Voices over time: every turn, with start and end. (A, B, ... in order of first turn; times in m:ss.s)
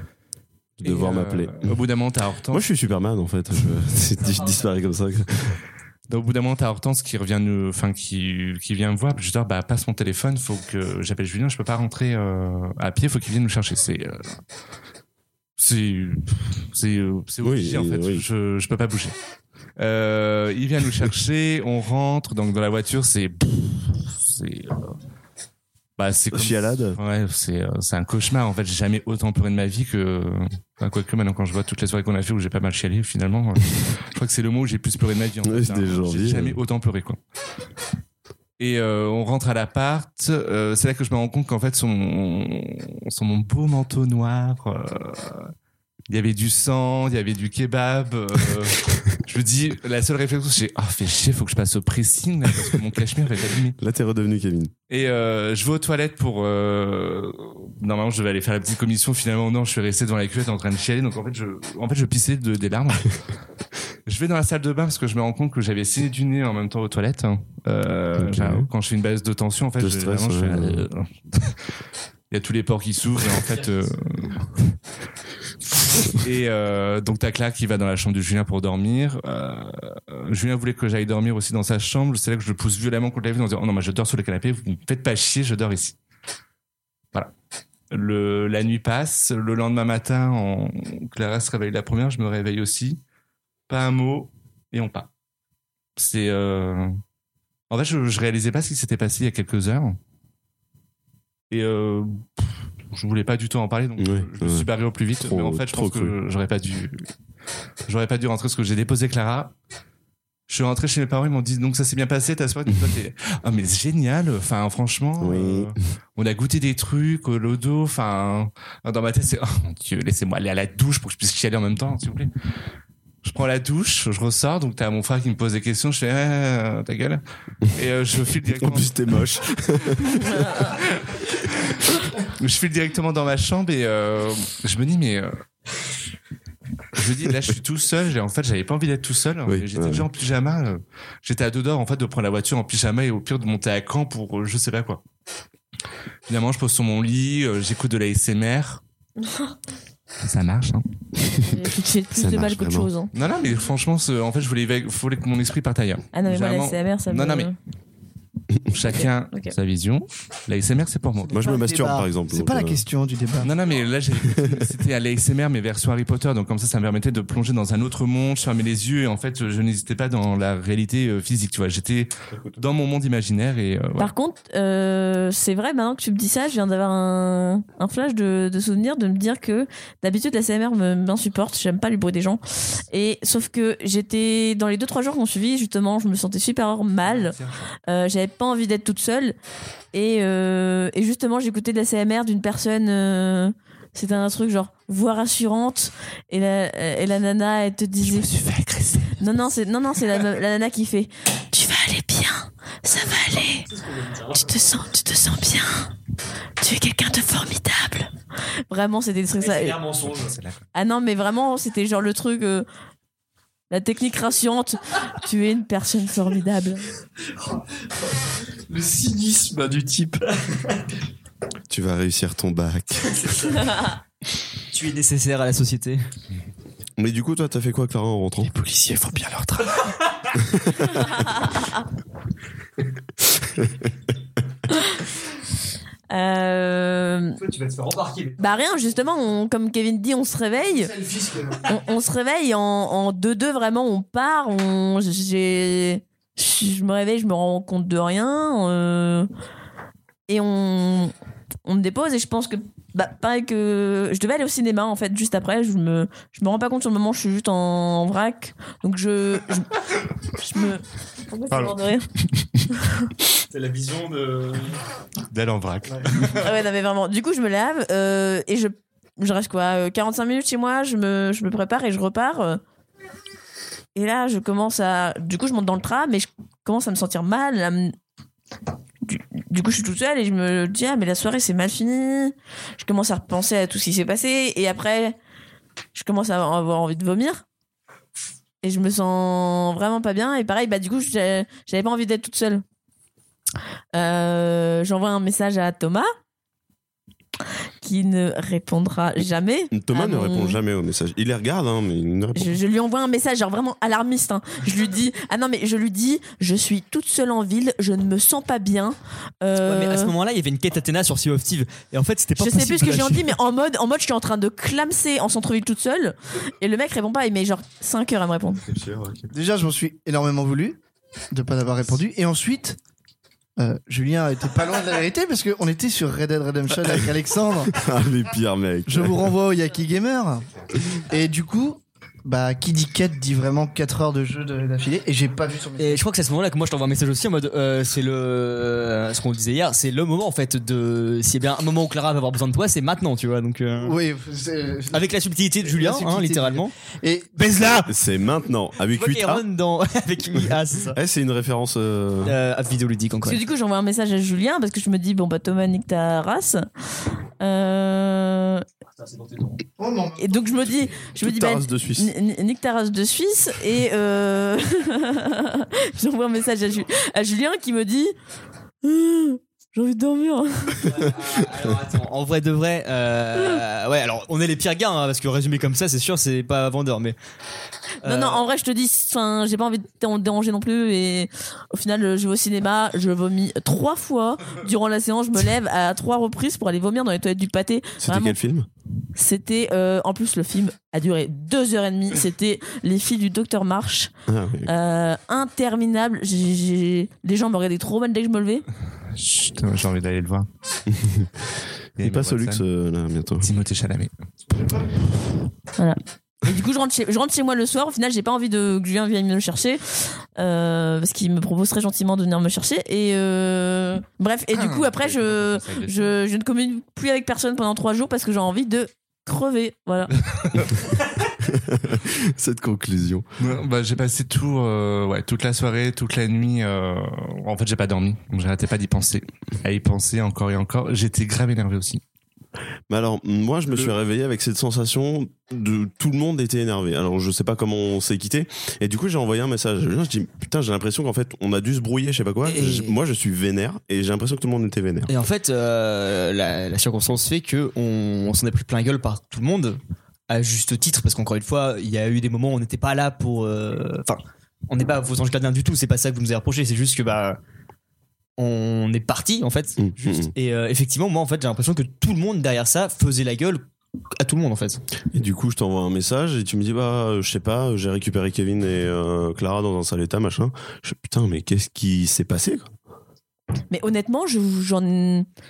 0:00.8-0:01.8 A
0:00.8-0:02.6 B
0:02.5-0:05.6 A
0:04.2-0:04.8 C
0:06.1-0:14.4 B
0:15.6-0:19.2 B
0:17.4-0:18.2 A
0:19.8-0:25.0 B
0:26.0-0:37.2 B
0:26.3-0:27.0 A
0:35.4-0:36.6 A
0:38.6-0:45.5 B
0:46.1-0:53.8 B
0:53.8-0:54.7 A
0:54.9-1:03.2 B
1:04.1-1:11.6 B
1:08.2-1:08.7 A
1:09.8-1:10.9 A
1:12.3-1:14.8 B
1:15.8-1:26.0 B
1:27.9-1:33.0 B
1:33.7-1:35.1 B
1:36.0-1:37.0 B
1:37.7-1:40.0 B
1:41.5-1:47.0 B
1:44.0-1:44.7 A
1:45.2-1:46.2 A
1:47.9-1:49.5 B
1:50.5-2:02.3 B
1:52.7-1:53.0 A
1:55.2-1:55.7 A
2:03.2-2:15.4 B
2:08.5-2:10.4 A
2:10.2-2:10.7 D
2:16.9-2:25.0 B
2:19.5-2:20.1 A
2:26.3-2:28.8 B
2:29.2-2:29.5 D
2:30.2-2:30.9 B
2:31.2-2:31.6 A
2:31.3-2:33.1 D
2:32.1-2:32.9 A
2:33.1-2:37.5 B
2:36.1-2:37.6 D
2:38.7-2:41.4 B
2:38.9-2:39.5 D
2:41.3-2:43.5 E
2:41.3-2:42.8 A
2:43.4-2:54.1 B
2:44.2-2:44.7 A
2:54.0-3:09.4 D
3:07.0-3:07.7 B
3:09.9-3:18.3 D
3:18.0-3:19.3 B
3:19.2-3:23.7 D
3:23.8-3:24.5 C
3:24.3-3:25.9 D
3:26.6-3:28.1 D
3:28.7-3:29.8 D
3:29.4-3:30.3 C
3:30.1-3:30.6 B
3:30.7-3:32.7 D
3:33.7-3:36.9 D
3:38.7-3:40.2 C
3:41.7-3:43.3 A
3:44.7-3:46.0 C
3:47.0-3:48.5 A
3:48.6-3:49.6 B
3:50.5-3:50.9 A
3:51.4-3:51.8 D
3:54.7-3:55.0 D
3:56.1-3:57.4 D
3:57.4-3:59.1 C
3:58.4-4:00.9 D
4:01.7-4:09.3 D
4:10.3-4:11.1 D
4:11.7-4:19.8 D
4:20.3-4:22.1 D
4:21.5-4:21.8 B
4:22.3-4:22.6 B
4:22.7-4:23.1 D
4:23.5-4:24.8 C
4:25.3-4:26.4 B
4:25.9-4:26.3 C
4:26.4-4:32.6 D
4:34.0-4:37.9 D
4:39.0-4:45.2 D
4:46.0-4:47.4 D
4:48.6-4:52.6 D
4:53.9-4:56.1 D
4:57.8-5:00.6 D
4:59.7-5:02.6 A
5:02.4-5:10.1 D
5:09.6-5:13.3 C
5:12.4-5:18.6 D
5:18.6-5:19.3 A
5:19.3-5:20.8 E
5:21.3-5:22.8 E
5:23.6-5:27.8 E
5:27.7-5:29.3 A
5:28.9-5:30.4 E
5:31.0-5:36.0 E
5:35.8-5:44.0 C
5:43.8-5:45.1 E
5:44.9-5:46.7 C
5:45.6-5:47.8 E
5:47.4-5:47.9 C
5:47.9-5:49.4 A
5:48.9-5:51.0 C
5:50.9-5:52.4 A
5:52.2-5:53.4 C
5:53.2-5:56.7 D
5:57.4-5:58.7 D
5:59.0-5:59.6 C
5:59.8-6:00.7 E
6:00.2-6:08.1 D
6:01.2-6:02.1 A
6:08.8-6:11.1 D
6:10.8-6:17.2 C
6:18.0-6:18.4 C
6:18.0-6:28.4 D
6:28.0-6:28.7 A
6:29.2-6:34.1 D
6:34.3-6:34.7 A
6:34.7-6:38.7 D
6:39.2-6:40.5 B
6:40.9-6:41.3 A
6:42.0-6:43.5 A
6:42.0-6:42.6 B
6:43.4-6:44.1 B
6:45.8-7:00.6 D
6:54.5-6:56.2 B
7:00.3-7:00.7 B
7:01.4-7:03.2 A
7:03.4-7:12.0 B
7:12.9-7:25.1 A
7:22.4-7:23.0 C
7:25.1-7:37.4 C
7:38.4-7:43.6 C
7:39.8-7:40.3 A
7:44.2-7:44.8 C
7:45.1-7:52.7 A
7:53.7-7:55.3 D